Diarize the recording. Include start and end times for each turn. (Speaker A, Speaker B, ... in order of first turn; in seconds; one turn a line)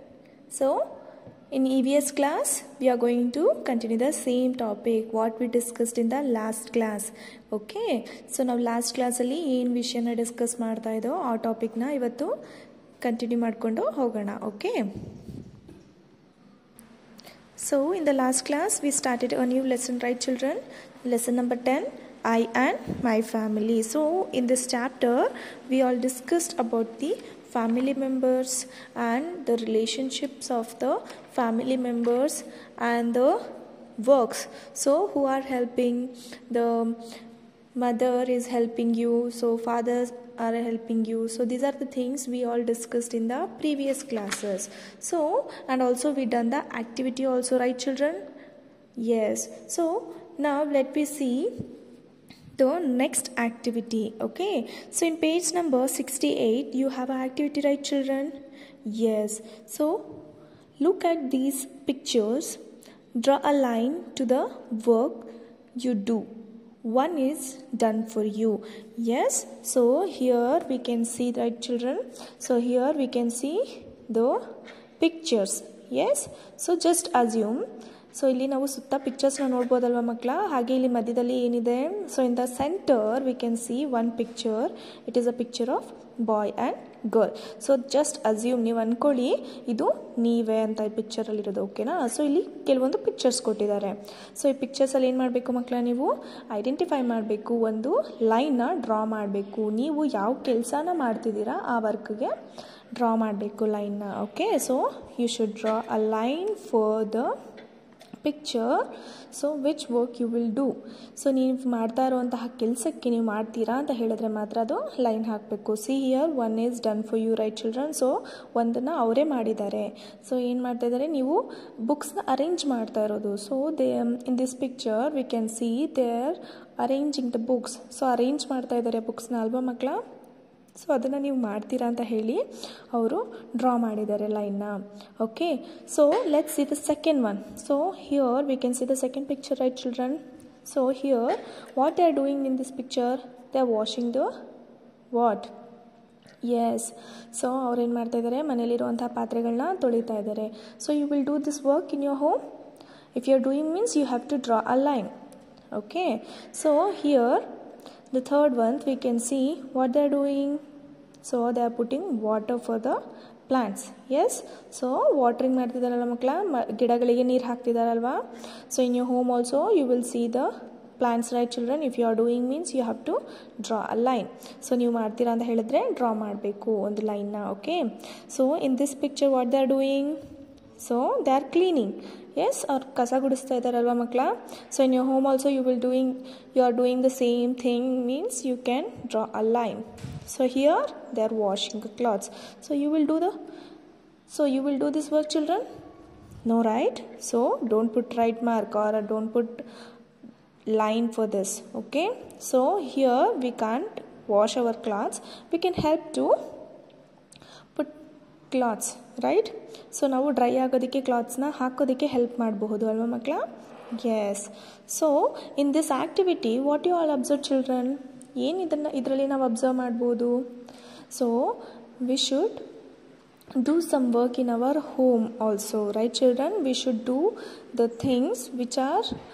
Speaker A: 0.5-0.8
Speaker A: 1.5-12.3
Speaker A: 13.0-14.8
Speaker A: 17.6-33.4
Speaker A: 34.0-37.0
Speaker A: 37.8-48.2
Speaker A: 49.0-51.6
Speaker A: 52.6-60.2
Speaker A: 60.8-62.6
Speaker A: 63.1-66.3
Speaker A: 66.8-74.4
Speaker A: 75.0-102.3
Speaker A: 102.9-107.3
Speaker A: 108.2-130.0
Speaker A: 130.8-144.3
Speaker A: 145.1-145.5
Speaker A: 146.4-152.4
Speaker A: 153.1-155.1
Speaker A: 155.7-157.5
Speaker A: 158.1-160.6
Speaker A: 161.2-180.2
Speaker A: 180.8-193.3
Speaker A: 194.3-195.6
Speaker A: 196.4-199.6
Speaker A: 200.7-206.3
Speaker A: 208.5-213.4
Speaker A: 213.9-220.5
Speaker A: 221.1-222.6
Speaker A: 223.6-229.1